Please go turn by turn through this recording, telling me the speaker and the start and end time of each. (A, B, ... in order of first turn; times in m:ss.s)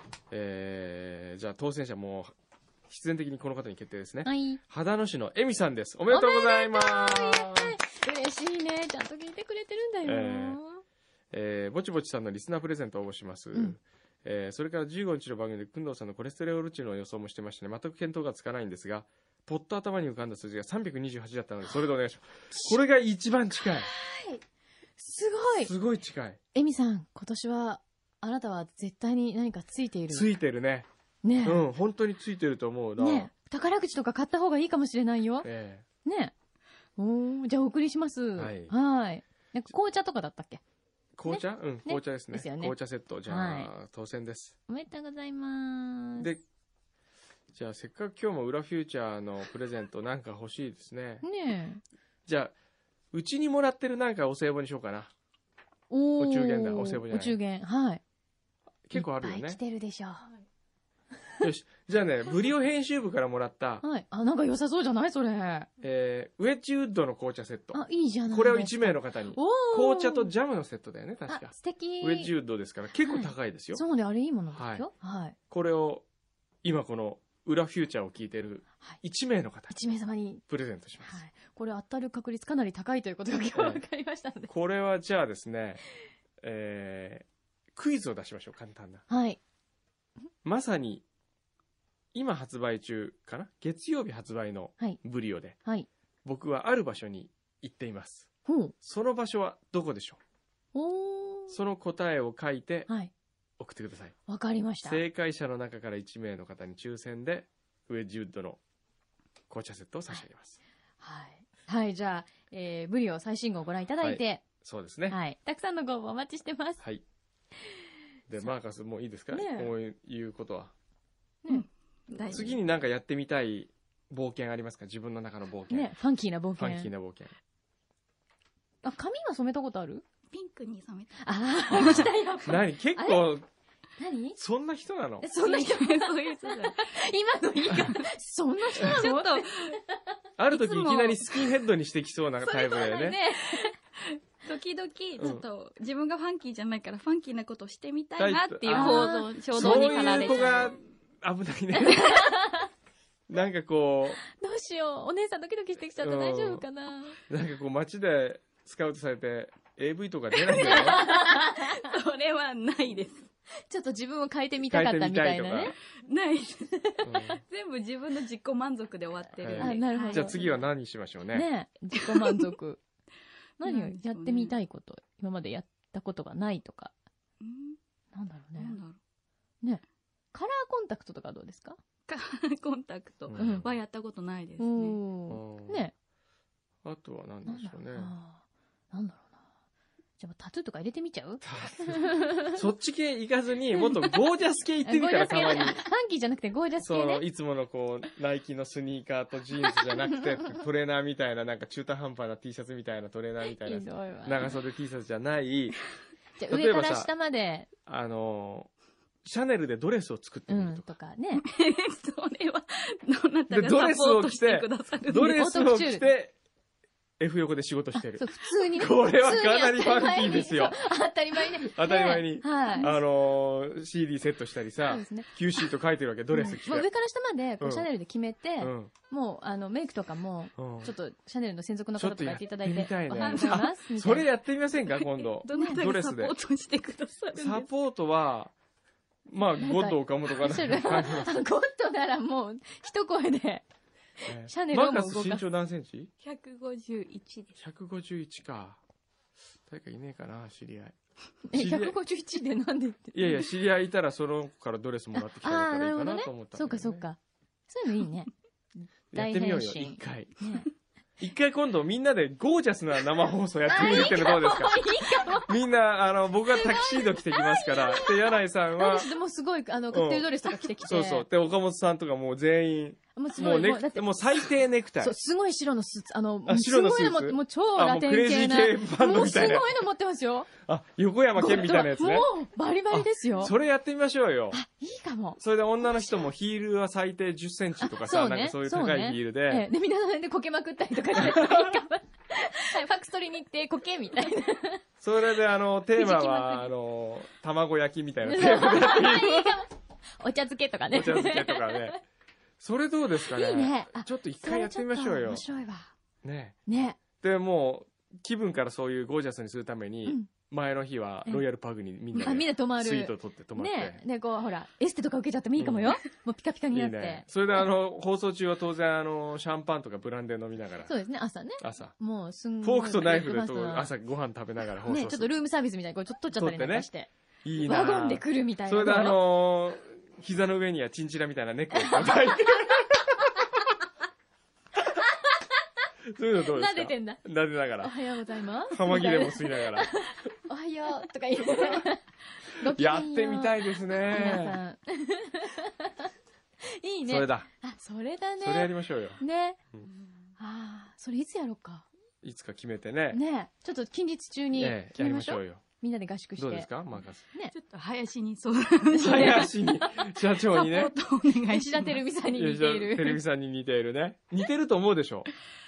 0:00.3-0:02.3 A
0:02.9-0:07.8 A
0:04.2-0:04.6 B
0:06.1-0:10.8 B
0:10.0-0:10.6 A
0:11.3-0:23.9 A
0:23.8-0:24.4 B
0:25.0-0:25.7 B
0:25.6-0:26.4 A
0:26.5-0:30.3 B
0:30.1-0:30.9 A
0:31.2-0:31.6 B
0:31.4-0:33.3 A
0:33.0-0:35.5 B
0:35.4-0:35.8 A
0:36.0-0:36.3 B
0:37.0-0:40.6 B
0:38.4-0:38.7 A
0:41.2-0:44.5 A
0:41.3-0:43.7 B
0:44.7-0:46.3 B
0:47.5-0:51.2 A
0:51.2-0:51.8 B
0:52.3-0:52.5 A
0:53.1-0:55.1 A
0:55.9-0:58.0 B
0:56.2-0:57.4 A
0:58.9-0:59.6 A
0:58.9-1:00.3 B
1:01.4-1:03.8 A
1:03.8-1:05.7 B
1:05.8-1:13.8 A
1:07.7-1:10.3 B
1:11.3-1:12.3 B
1:13.0-1:15.4 B
1:14.5-1:14.9 A
1:15.5-1:16.0 A
1:16.6-1:19.7 A
1:19.7-1:20.4 B
1:20.4-1:21.2 A
1:21.0-1:24.5 B
1:23.5-1:23.8 A
1:24.5-1:25.8 A
1:26.4-1:29.0 A
1:29.1-1:29.4 B
1:30.4-1:31.0 A
1:32.1-1:35.6 A
1:35.6-1:35.9 B
1:36.2-1:38.3 A
1:38.4-1:38.7 B
1:38.8-1:40.2 A
1:40.7-1:41.6 B
1:41.5-1:42.9 A
1:43.6-1:44.1 A
1:44.3-1:45.0 B
1:44.8-1:48.6 A
1:49.5-1:50.6 A
1:51.0-1:54.4 B
1:54.0-1:55.2 A
1:55.1-1:56.8 B
1:58.3-2:00.7 A
1:59.3-1:59.7 B
2:01.5-2:02.6 C
2:02.3-2:05.9 A
2:05.7-2:06.9 B
2:06.6-2:07.3 A
2:08.8-2:10.0 B
2:10.3-2:12.1 C
2:11.2-2:13.3 B
2:11.7-2:13.4 A
2:14.0-2:14.4 B
2:14.4-2:15.3 A
2:15.2-2:19.9 B
2:15.4-2:16.9 C
2:17.7-2:18.1 C
2:18.8-2:19.0 A
2:18.8-2:19.8 C
2:20.4-2:23.2 A
2:20.5-2:21.5 C
2:22.4-2:23.7 B
2:24.4-2:30.7 C
2:25.2-2:25.4 A
2:28.2-2:32.1 A
2:28.7-2:30.6 B
2:31.7-2:32.7 B
2:33.3-2:34.2 A
2:34.3-2:37.2 B
2:36.0-2:36.6 A
2:37.3-2:41.0 A
2:40.4-2:43.3 C
2:40.6-2:41.7 B
2:43.7-2:45.7 B
2:44.6-2:45.8 A
2:46.0-2:50.6 C
2:47.0-2:47.4 A
2:49.4-2:51.5 A
2:49.6-2:50.4 B
2:51.3-2:52.8 B
2:52.0-2:52.4 C
2:53.6-2:54.5 C
2:53.6-2:56.9 B
2:57.4-2:57.8 C
2:58.1-2:58.8 B
2:58.6-2:59.0 C
3:00.3-3:01.8 B
3:02.1-3:05.0 C
3:03.3-3:03.7 A
3:03.3-3:03.6 B
3:04.6-3:05.9 B
3:05.3-3:05.9 A
3:06.8-3:08.1 A
3:07.4-3:09.4 B
3:10.2-3:12.6 B
3:11.4-3:15.8 A
3:14.8-3:17.2 B
3:16.8-3:25.8 A
3:23.5-3:24.5 B
3:26.4-3:27.7 B
3:26.5-3:27.1 A
3:27.8-3:28.7 A
3:29.2-3:30.9 A
3:30.5-3:31.4 B
3:31.4-3:35.4 C
3:33.5-3:36.3 A
3:35.3-3:36.1 B
3:37.2-3:46.9 A
3:38.0-3:42.9 B
3:44.8-3:45.3 B
3:46.3-3:54.3 B
3:47.6-3:47.9 A
3:48.6-3:48.9 A
3:50.6-3:50.9 A
3:52.0-3:56.3 A
3:53.1-3:53.7 C
3:54.9-3:57.7 C
3:55.5-3:55.8 B
3:57.3-3:58.5 A
3:59.3-4:01.4 A
3:59.6-4:03.6 B
4:04.2-4:05.4 B
4:04.2-4:06.1 A
4:06.2-4:07.6 C
4:07.6-4:08.8 A
4:09.7-4:10.9 A
4:11.5-4:13.5 B
4:11.5-4:12.0 A
4:13.1-4:17.0 A
4:15.2-4:20.7 B
4:19.1-4:20.5 A
4:21.2-4:24.8 A
4:23.6-4:25.6 B
4:25.4-4:29.1 A
4:26.5-4:31.3 B
4:29.9-4:35.2 A
4:33.1-4:40.5 B
4:36.4-4:39.7 A
4:40.6-4:42.3 A
4:41.4-4:43.5 B
4:42.9-4:44.6 A
4:44.5-4:45.4 B
4:45.4-4:49.7 A
4:47.8-4:54.8 B
4:51.1-4:51.7 A
4:55.0-4:59.6 A
4:55.9-4:56.7 B
4:58.2-5:02.0 B
5:00.9-5:02.0 A
5:02.6-5:05.4 A
5:03.2-5:05.9 B
5:06.2-5:06.6 A
5:06.7-5:07.0 B
5:07.2-5:14.0 A
5:12.1-5:17.2 B
5:15.6-5:16.0 A
5:16.7-5:20.9 A
5:20.9-5:23.9 B
5:21.6-5:22.0 A
5:22.6-5:25.3 A
5:24.8-5:27.1 B
5:26.4-5:26.9 A
5:27.4-5:33.2 A
5:27.6-5:29.2 B
5:31.7-5:32.6 B
5:36.1-5:37.9 A
5:36.5-5:37.2 B
5:37.8-5:46.0 B
5:38.7-5:39.9 A
5:41.4-5:41.8 A
5:42.6-5:44.6 A
5:46.6-5:49.6 B
5:47.1-5:47.5 A
5:48.4-5:49.2 A
5:50.4-5:51.9 B
5:52.2-5:53.2 A
5:53.1-5:56.7 B
5:54.5-5:55.6 A
5:56.4-5:57.2 A
5:57.2-5:57.5 B
5:57.5-5:59.5 C
5:58.9-6:00.9 A
5:59.0-6:00.1 B
6:00.5-6:02.0 C
6:01.5-6:03.2 B
6:02.3-6:05.3 A